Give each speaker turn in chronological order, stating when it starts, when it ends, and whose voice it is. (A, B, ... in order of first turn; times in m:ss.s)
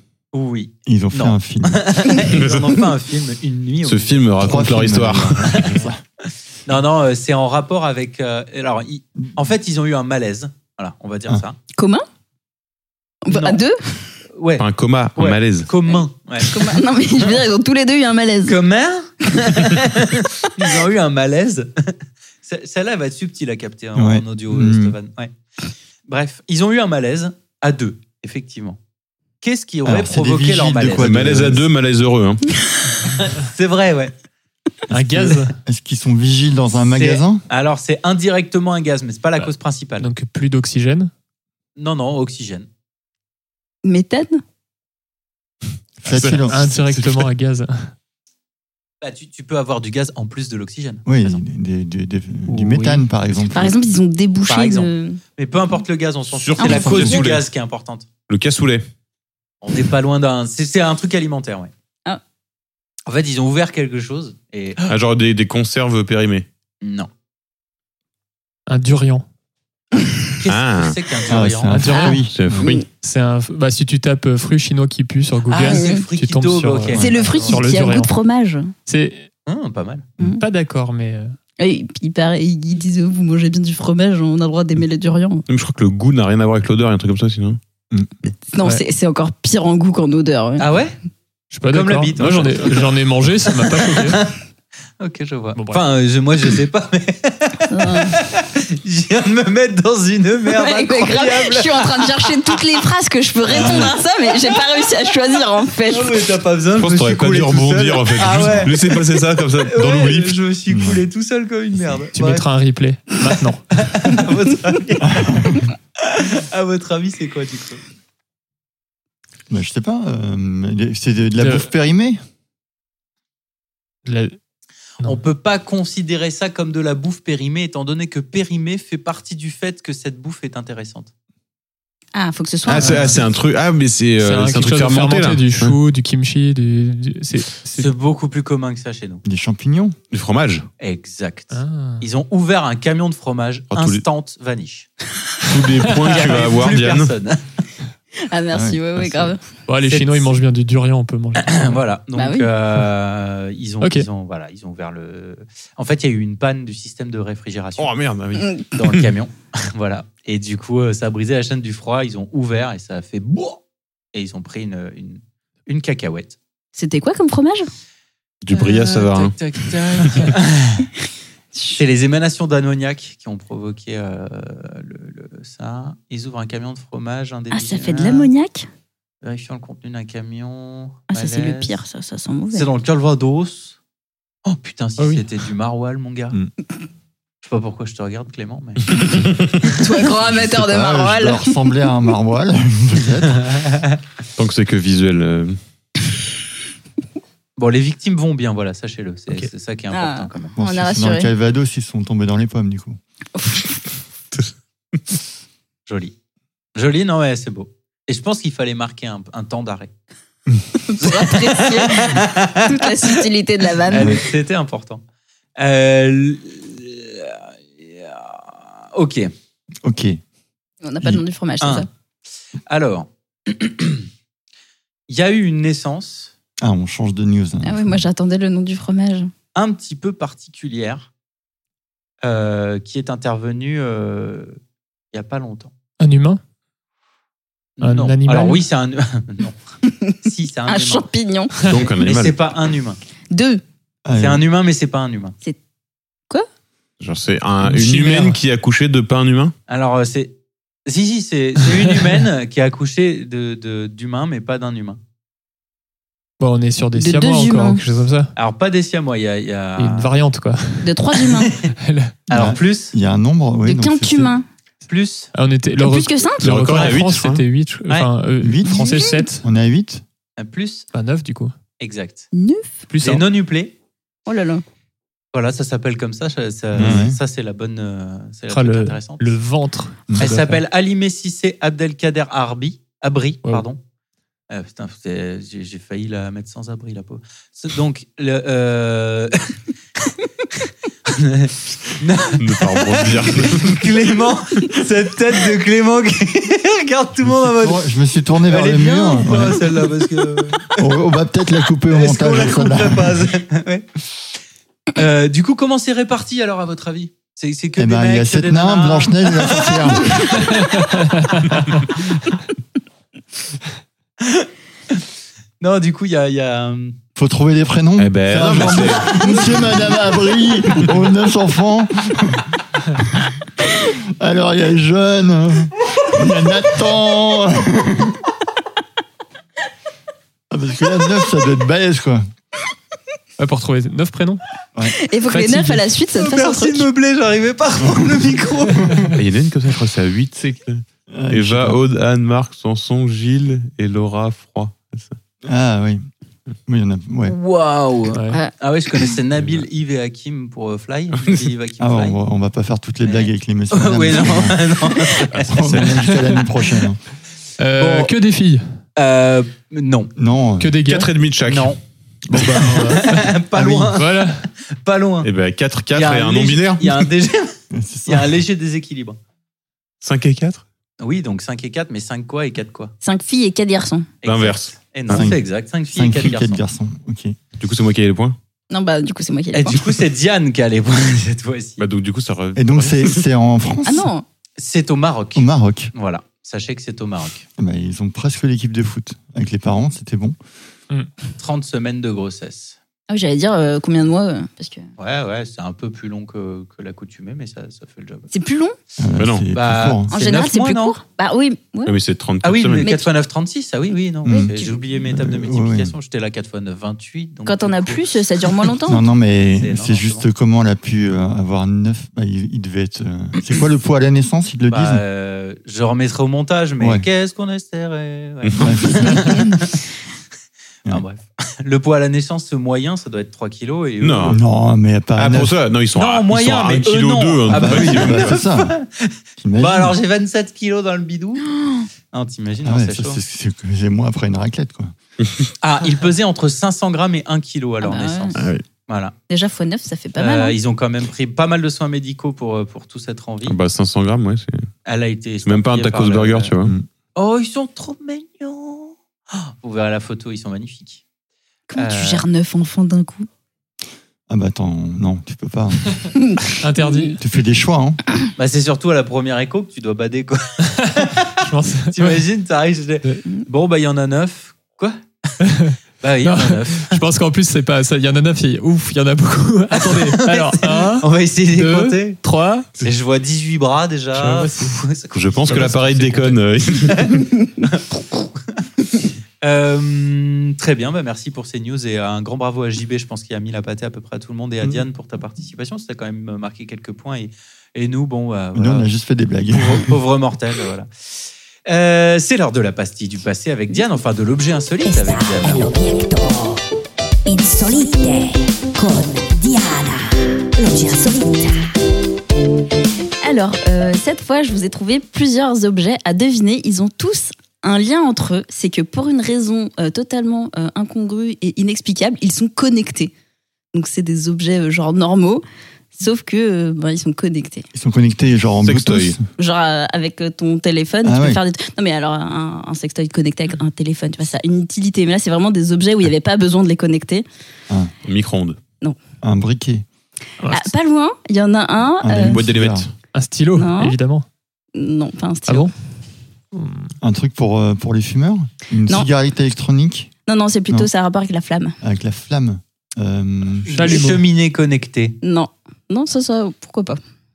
0:00.3-0:04.3 A
0:00.9-0:02.0 B
0:03.8-0:05.7 C
0:04.4-0:06.0 B
0:05.5-0:05.8 A
0:06.7-0:11.6 A
0:11.8-0:12.0 D
0:13.2-0:14.1 D
0:13.3-0:13.6 A
0:14.4-0:14.6 A
0:14.6-0:15.7 C
0:15.2-0:17.4 A
0:15.9-0:18.6 D
0:18.5-0:25.3 A
0:24.0-0:25.0 B
0:26.1-0:28.8 A
0:29.4-0:31.1 A
0:29.8-0:31.7 B
0:31.0-0:32.4 C
0:33.1-0:34.1 A
0:34.9-0:35.6 E
0:35.6-0:37.4 B
0:36.8-0:40.1 A
0:39.4-0:41.1 E
0:41.8-0:42.7 A
0:43.8-0:44.4 D
0:46.0-0:47.0 B
0:46.1-0:47.9 E
0:49.0-0:51.4 A
0:51.1-0:53.8 B
0:52.5-0:53.0 A
0:53.5-0:55.2 D
0:54.5-0:58.1 A
0:56.3-0:57.5 C
0:56.6-0:57.3 D
0:58.3-0:58.8 C
0:59.6-1:01.7 A
1:03.1-1:04.9 A
1:04.9-1:06.5 C
1:06.8-1:07.1 A
1:08.7-1:09.2 E
1:10.4-1:11.8 A
1:10.5-1:11.0 C
1:11.3-1:12.7 B
1:11.7-1:12.2 E
1:11.9-1:12.9 D
1:12.0-1:12.8 C
1:13.0-1:18.2 E
1:15.5-1:17.7 A
1:15.6-1:16.0 D
1:17.0-1:18.7 D
1:18.9-1:19.3 E
1:19.5-1:20.1 A
1:20.2-1:21.4 E
1:21.6-1:25.4 D
1:25.5-1:27.6 C
1:28.5-1:30.7 D
1:30.6-1:31.0 A
1:31.5-1:34.2 E
1:31.7-1:33.0 A
1:33.5-1:34.4 A
1:35.0-1:42.6 A
1:35.6-1:35.8 E
1:37.7-1:38.2 D
1:40.5-1:46.2 D
1:43.5-1:43.9 A
1:43.6-1:43.8 B
1:45.9-1:52.5 A
1:46.8-1:50.4 C
1:50.7-1:51.0 B
1:52.1-1:53.9 E
1:53.8-1:57.8 A
1:55.0-1:55.7 B
1:59.5-2:02.2 B
2:01.4-2:01.7 E
2:04.1-2:04.4 E
2:05.0-2:11.1 A
2:12.1-2:13.2 D
2:12.7-2:15.8 C
2:14.2-2:17.9 E
2:17.8-2:19.2 A
2:19.2-2:20.0 B
2:20.1-2:20.7 C
2:20.8-2:24.9 A
2:21.5-2:22.0 E
2:23.7-2:24.0 C
2:25.4-2:27.1 C
2:26.0-2:27.4 A
2:28.3-2:29.4 D
2:28.5-2:29.3 B
2:29.7-2:31.8 E
2:29.8-2:30.3 A
2:31.4-2:37.9 A
2:32.2-2:32.5 D
2:33.8-2:34.1 E
2:37.8-2:39.0 C
2:38.7-2:43.6 A
2:44.1-2:46.4 A
2:46.8-2:47.7 D
2:48.4-2:49.4 C
2:48.5-2:50.9 A
2:51.6-2:51.8 D
2:51.8-2:58.3 A
2:57.5-2:58.7 D
2:59.2-3:01.8 A
3:01.1-3:02.7 D
3:02.5-3:03.8 A
3:04.5-3:06.4 A
3:05.0-3:05.2 E
3:07.4-3:09.0 A
3:09.6-3:11.6 D
3:10.2-3:13.6 B
3:13.5-3:14.0 A
3:14.4-3:15.6 C
3:17.6-3:20.5 A
3:19.9-3:21.3 D
3:20.6-3:23.0 B
3:23.4-3:23.8 D
3:25.9-3:26.1 A
3:26.8-3:29.9 A
3:30.8-3:34.2 D
3:31.0-3:33.2 A
3:33.9-3:35.0 A
3:33.9-3:34.2 B
3:35.6-3:39.3 A
3:39.8-3:40.2 B
3:40.8-3:41.9 D
3:41.6-3:41.9 A
3:42.7-3:44.1 A
3:45.1-3:46.3 A
3:46.6-3:48.0 B
3:47.6-3:49.3 D
3:49.6-3:51.1 A
3:52.2-3:54.6 A
3:55.1-3:55.7 A
3:56.0-3:56.4 E
3:57.8-3:59.6 A
3:57.8-3:58.6 E
4:00.2-4:01.1 A
4:00.7-4:01.7 D
4:01.6-4:02.4 C
4:02.0-4:03.0 A
4:03.3-4:03.6 D
4:04.0-4:04.4 B
4:04.2-4:05.4 A
4:07.0-4:09.5 C
4:07.6-4:08.4 E
4:09.7-4:10.3 A
4:10.9-4:15.0 A
4:16.4-4:18.3 E
4:17.0-4:17.8 D
4:18.4-4:20.1 A
4:19.8-4:20.9 E
4:20.8-4:21.6 D
4:21.4-4:21.7 A
4:21.8-4:22.2 E
4:22.3-4:22.9 A
4:22.3-4:24.3 B
4:23.7-4:24.5 D
4:24.9-4:25.3 A
4:25.3-4:29.4 E
4:25.8-4:26.4 D
4:26.4-4:27.4 C
4:28.4-4:30.0 B
4:28.7-4:29.2 D
4:30.4-4:30.9 A
4:30.9-4:31.5 E
4:31.8-4:32.3 A
4:32.3-4:32.8 D
4:32.9-4:33.2 E
4:33.0-4:33.7 A
4:34.3-4:34.6 D
4:35.3-4:39.4 A
4:36.7-4:37.2 B
4:38.5-4:40.6 E
4:40.2-4:43.8 A
4:44.5-4:49.5 A
4:50.1-4:57.8 A
4:52.4-4:53.8 C
4:57.2-4:59.8 B
4:58.5-5:00.9 A
5:00.8-5:03.3 B
5:01.9-5:04.0 A
5:05.0-5:10.8 A
5:07.8-5:10.3 B
5:14.2-5:15.0 A
5:15.6-5:17.0 A
5:17.2-5:28.2 B
5:18.0-5:19.2 C
5:30.5-5:32.2 B
5:33.4-5:34.4 E
5:34.9-5:36.9 D
5:35.3-5:35.9 E
5:36.1-5:39.0 A
5:38.8-5:39.1 E
5:39.1-5:45.2 C
5:41.1-5:41.8 B
5:45.4-5:46.0 B
5:46.7-5:47.4 B
5:47.3-5:52.2 A
5:48.1-5:48.4 E
5:51.8-5:57.0 B
5:53.0-5:55.9 A
5:57.6-5:58.8 E
5:57.8-5:58.1 A
5:59.0-6:00.1 A
6:00.2-6:00.8 B
6:00.6-6:01.1 E
6:00.8-6:01.8 C
6:01.4-6:01.8 A
6:02.3-6:03.0 B
6:02.3-6:03.3 E
6:02.7-6:05.3 A
6:03.5-6:03.9 B
6:03.9-6:04.5 E
6:05.2-6:07.0 C
6:05.9-6:07.6 A
6:07.7-6:08.4 B
6:08.1-6:09.2 A
6:10.0-6:10.6 C
6:11.0-6:12.9 A
6:13.0-6:14.1 D
6:14.2-6:16.6 A
6:14.2-6:15.3 C
6:15.1-6:17.4 B
6:17.6-6:18.4 C
6:18.7-6:19.8 D
6:19.5-6:21.8 A
6:21.8-6:23.2 C
6:22.6-6:24.1 B
6:23.9-6:24.2 D
6:24.6-6:27.5 A
6:25.4-6:25.9 B
6:27.6-6:30.4 B
6:31.4-6:32.8 A
6:33.1-6:34.9 D
6:35.0-6:38.3 A
6:38.3-6:38.8 D
6:39.0-6:40.1 B
6:39.2-6:39.5 C
6:39.5-6:41.0 A
6:40.1-6:42.0 D
6:41.9-6:42.9 C
6:42.4-6:48.1 A
6:42.8-6:43.1 D
6:44.2-6:45.9 B
6:44.3-6:44.8 D
6:47.5-6:49.0 D
6:48.8-6:55.0 B
6:49.6-6:50.3 A
6:54.7-6:59.8 A
6:56.8-6:57.1 B
6:58.4-6:58.8 C
6:58.6-6:59.6 B
7:00.9-7:04.4 A
7:04.0-7:04.4 C
7:04.2-7:05.5 B
7:05.2-7:08.4 C
7:06.0-7:11.5 A
7:07.5-7:08.8 B
7:09.4-7:10.0 B
7:11.4-7:11.9 D
7:12.1-7:13.2 A
7:12.6-7:14.9 B
7:15.2-7:15.5 C
7:15.6-7:19.2 A
7:17.8-7:18.4 D
7:18.4-7:18.6 C
7:19.3-7:20.6 D
7:20.2-7:23.6 A
7:23.4-7:24.7 C
7:24.8-7:26.5 A
7:25.4-7:26.7 C
7:27.2-7:31.0 A
7:31.7-7:33.3 D
7:31.8-7:32.2 A
7:34.3-7:36.0 B
7:36.2-7:37.2 D
7:36.6-7:37.2 E
7:37.2-7:38.0 B
7:38.4-7:45.3 A
7:40.8-7:42.2 E
7:45.4-7:52.8 E
7:46.0-7:47.0 A
7:49.8-7:52.2 A
7:52.8-7:56.1 A
7:54.1-7:54.8 E
7:55.1-7:57.1 C
7:55.5-7:56.4 E
7:56.8-7:58.6 A
7:59.4-8:08.9 A
8:08.6-8:10.0 B
8:09.5-8:10.9 A
8:11.7-8:15.7 A
8:14.8-8:16.6 F
8:17.3-8:21.7 F
8:23.2-8:33.1 D
8:33.7-8:35.4 D
8:36.0-8:37.7 D
8:37.7-8:39.3 B
8:38.6-8:39.2 C
8:39.4-8:47.2 D
8:41.0-8:41.4 B
8:48.0-8:48.6 C
8:49.2-8:49.8 B
8:50.4-8:50.7 E
8:50.5-8:52.4 D
8:52.0-8:52.9 B
8:52.2-8:52.9 C
8:53.1-8:54.3 E
8:53.6-8:54.0 D
8:54.8-8:55.7 D
8:55.5-8:55.7 E
8:56.5-8:56.9 E
8:57.0-9:00.1 B
9:00.3-9:01.8 D
9:01.8-9:03.7 B
9:03.7-9:05.2 A
9:03.7-9:04.2 E
9:05.2-9:07.0 D